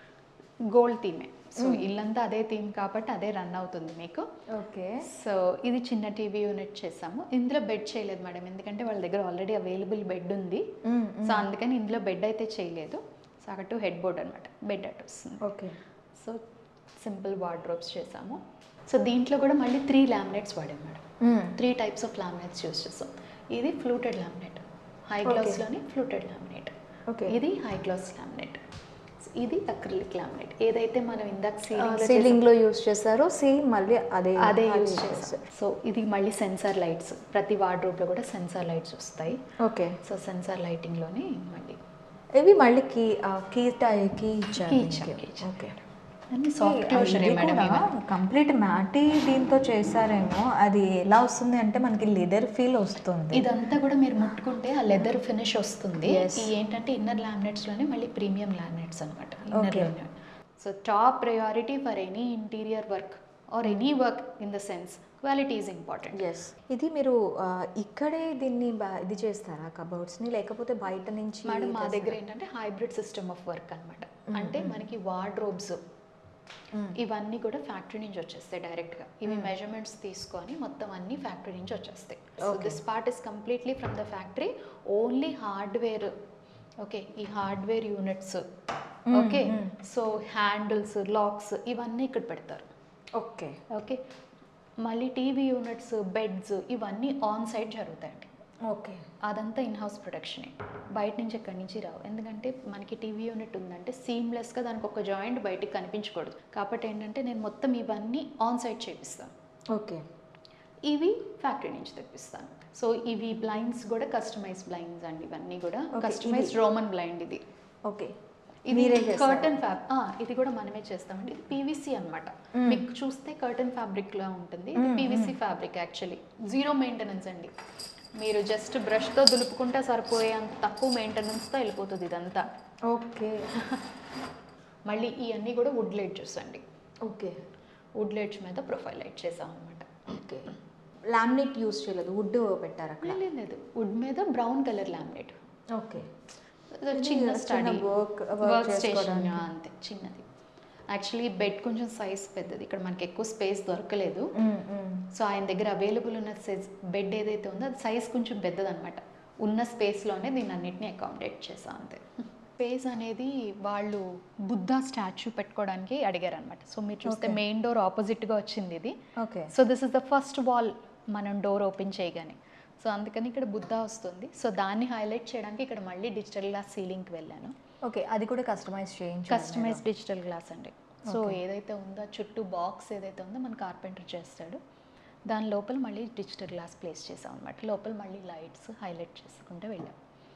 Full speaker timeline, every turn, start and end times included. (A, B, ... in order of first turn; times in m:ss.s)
0:00.7-0:04.2 A
0:01.6-0:01.9 B
0:04.5-0:05.0 B
0:05.0-0:10.6 A
0:10.8-0:11.5 B
0:11.2-0:15.4 A
0:15.4-0:15.8 B
0:16.2-0:16.4 A
0:17.0-0:26.7 A
0:21.2-0:21.5 B
0:25.2-0:25.6 B
0:27.1-0:27.4 B
0:27.3-0:28.6 A
0:29.2-0:32.4 A
0:31.7-0:35.4 B
0:34.4-0:39.4 A
0:39.6-0:40.0 B
0:40.0-0:41.8 A
0:42.4-0:45.8 B
0:44.6-0:45.5 A
0:46.3-0:47.9 A
0:46.6-0:53.5 B
0:53.3-1:06.2 A
0:56.0-0:56.5 B
0:59.5-0:59.9 B
1:06.1-1:12.2 B
1:11.4-1:15.8 A
1:14.3-1:14.8 B
1:16.7-1:17.0 B
1:16.9-1:26.1 A
1:22.4-1:22.8 B
1:26.8-1:28.4 A
1:29.1-1:29.7 B
1:29.1-1:32.6 A
1:33.1-1:33.6 B
1:33.7-1:34.0 A
1:34.8-1:38.3 A
1:38.6-1:39.0 B
1:39.2-1:49.3 A
1:49.7-1:50.0 B
1:50.8-1:57.4 A
1:55.9-1:56.5 B
1:57.8-1:58.2 B
1:58.7-2:07.5 A
1:58.7-1:59.6 B
2:02.5-2:02.8 B
2:04.8-2:05.3 B
2:08.2-2:12.5 A
2:12.9-2:13.5 B
2:13.6-2:13.8 A
2:14.9-2:16.6 A
2:17.0-2:17.4 B
2:18.0-2:20.0 A
2:20.1-2:20.5 B
2:21.1-2:23.2 B
2:23.0-2:25.3 A
2:25.7-2:26.1 B
2:26.7-2:27.9 A
2:26.9-2:29.4 B
2:28.4-2:30.2 A
2:30.9-2:34.3 A
2:34.4-2:35.1 B
2:35.1-2:48.9 A
2:47.0-2:47.4 B
2:49.2-2:49.5 B
2:49.5-2:57.5 A
2:57.8-2:59.8 B
2:59.3-3:04.6 A
3:01.1-3:01.4 B
3:05.3-3:10.0 A